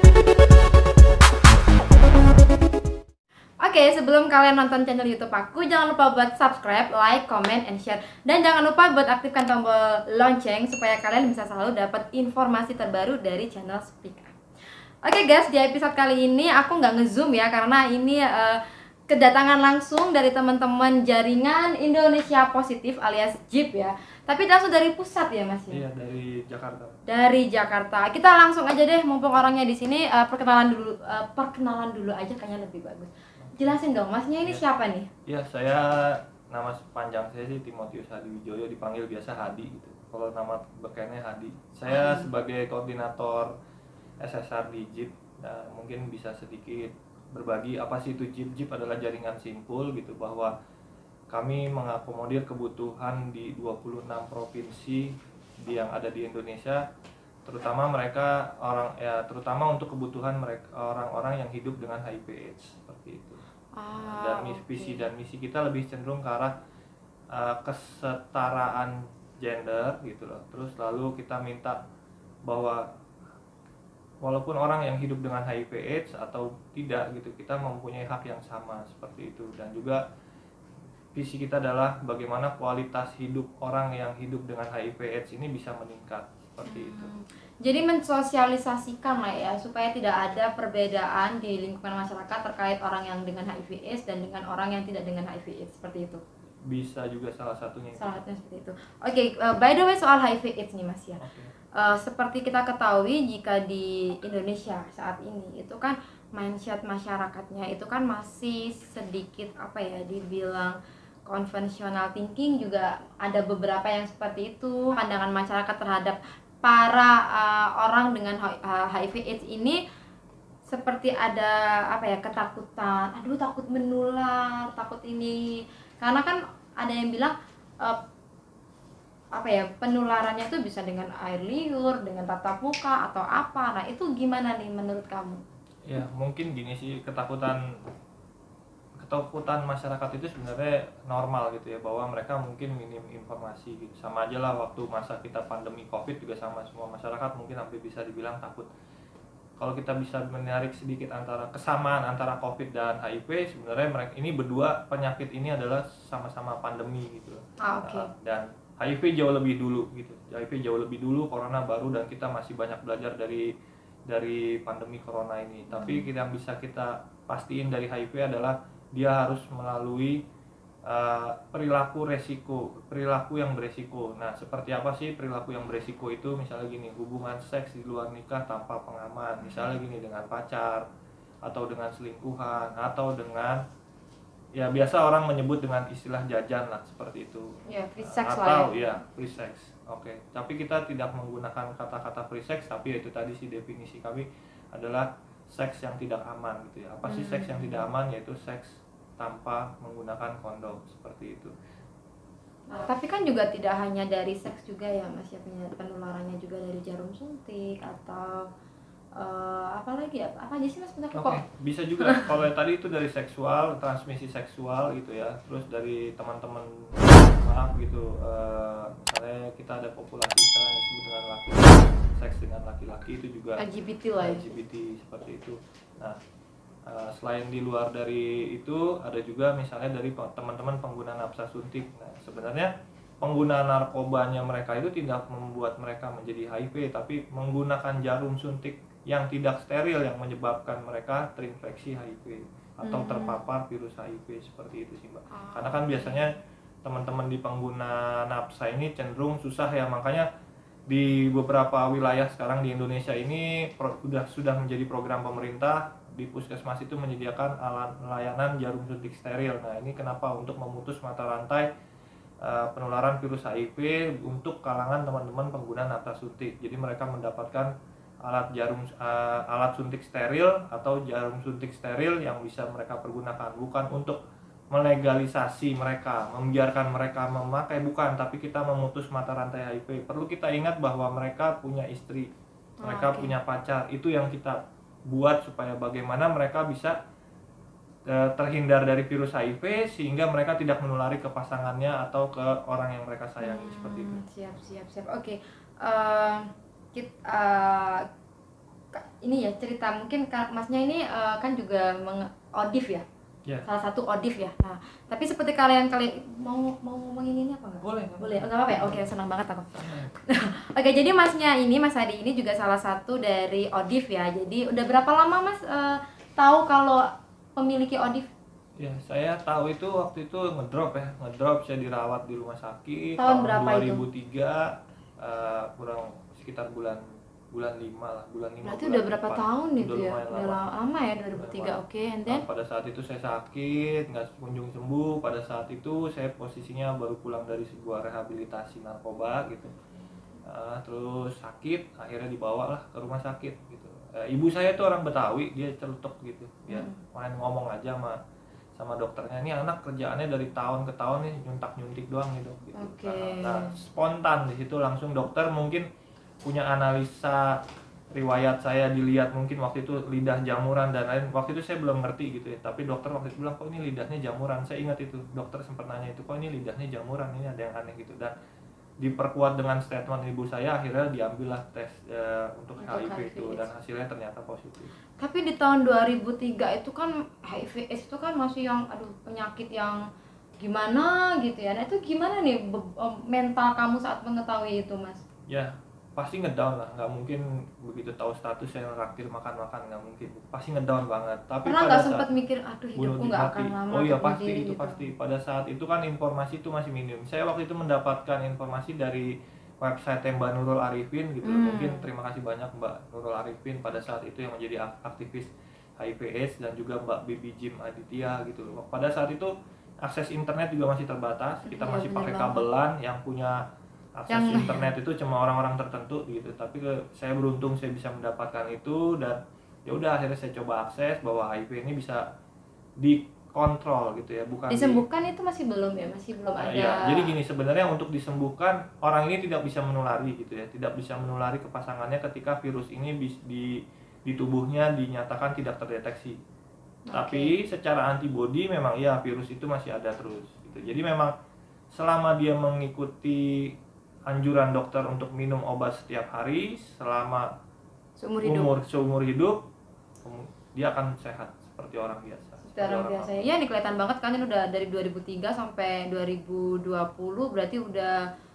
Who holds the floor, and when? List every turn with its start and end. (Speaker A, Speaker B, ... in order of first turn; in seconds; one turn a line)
Speaker A: 3.6-14.4
Speaker A: 15.0-25.8
Speaker B: 25.7-27.0
Speaker A: 27.1-35.1
Speaker B: 33.4-33.8
Speaker B: 35.3-43.5
Speaker A: 41.9-42.3
Speaker B: 44.2-50.5
Speaker B: 51.3-56.8
Speaker B: 57.5-63.4
Speaker A: 63.8-65.1
Speaker B: 64.0-66.5
Speaker B: 67.3-71.8
Speaker B: 72.5-72.8
Speaker B: 74.2-80.0
Speaker B: 81.1-87.1
Speaker A: 86.6-96.2
Speaker B: 96.7-98.2
Speaker A: 98.0-101.2
Speaker B: 101.2-101.5
Speaker A: 101.8-110.8
Speaker A: 111.3-119.8
Speaker A: 120.7-128.0
Speaker A: 129.3-135.4
Speaker B: 135.9-137.6
Speaker B: 139.0-148.7
Speaker B: 149.6-163.5
Speaker A: 157.6-158.1
Speaker B: 164.1-170.2
Speaker A: 165.7-166.1
Speaker B: 170.9-180.8
Speaker B: 181.4-183.6
Speaker B: 184.6-201.5
Speaker A: 187.7-188.7
Speaker A: 197.0-197.8
Speaker A: 202.7-208.5
Speaker A: 209.2-211.4
Speaker B: 211.1-223.6
Speaker A: 212.0-212.4
Speaker A: 223.6-224.5
Speaker B: 224.2-226.2
Speaker B: 226.9-232.7
Speaker B: 233.2-250.3
Speaker A: 242.8-243.4
Speaker A: 245.3-246.3
Speaker B: 250.9-261.7
Speaker B: 262.4-267.7
Speaker B: 268.2-274.2
Speaker B: 274.7-282.3
Speaker A: 282.8-283.4
Speaker B: 282.8-284.6
Speaker B: 285.1-286.9
Speaker B: 288.1-294.2
Speaker A: 293.4-298.0
Speaker A: 298.9-303.0
Speaker A: 303.6-318.3
Speaker B: 307.8-309.1
Speaker B: 309.7-310.1
Speaker B: 318.8-324.6
Speaker A: 323.2-324.0
Speaker B: 325.2-330.6
Speaker A: 328.6-332.4
Speaker B: 331.4-339.7
Speaker B: 340.4-348.2
Speaker A: 346.7-347.0
Speaker B: 348.8-355.9
Speaker A: 352.7-353.8
Speaker B: 356.4-357.6
Speaker B: 358.1-368.3
Speaker B: 369.0-374.9
Speaker A: 372.8-373.7
Speaker A: 375.2-380.0
Speaker A: 380.6-385.2
Speaker B: 385.5-392.3
Speaker A: 391.6-395.1
Speaker B: 392.9-409.5
Speaker A: 401.4-402.1
Speaker B: 410.0-413.6
Speaker A: 411.6-412.6
Speaker B: 414.2-422.2
Speaker A: 414.3-414.9
Speaker B: 423.0-425.0
Speaker A: 424.7-427.4
Speaker B: 426.6-436.4
Speaker A: 437.1-437.5
Speaker B: 437.1-441.3
Speaker B: 441.9-443.7
Speaker B: 444.3-447.5
Speaker A: 448.2-448.8
Speaker B: 448.4-449.6
Speaker B: 450.2-453.5
Speaker A: 452.6-458.2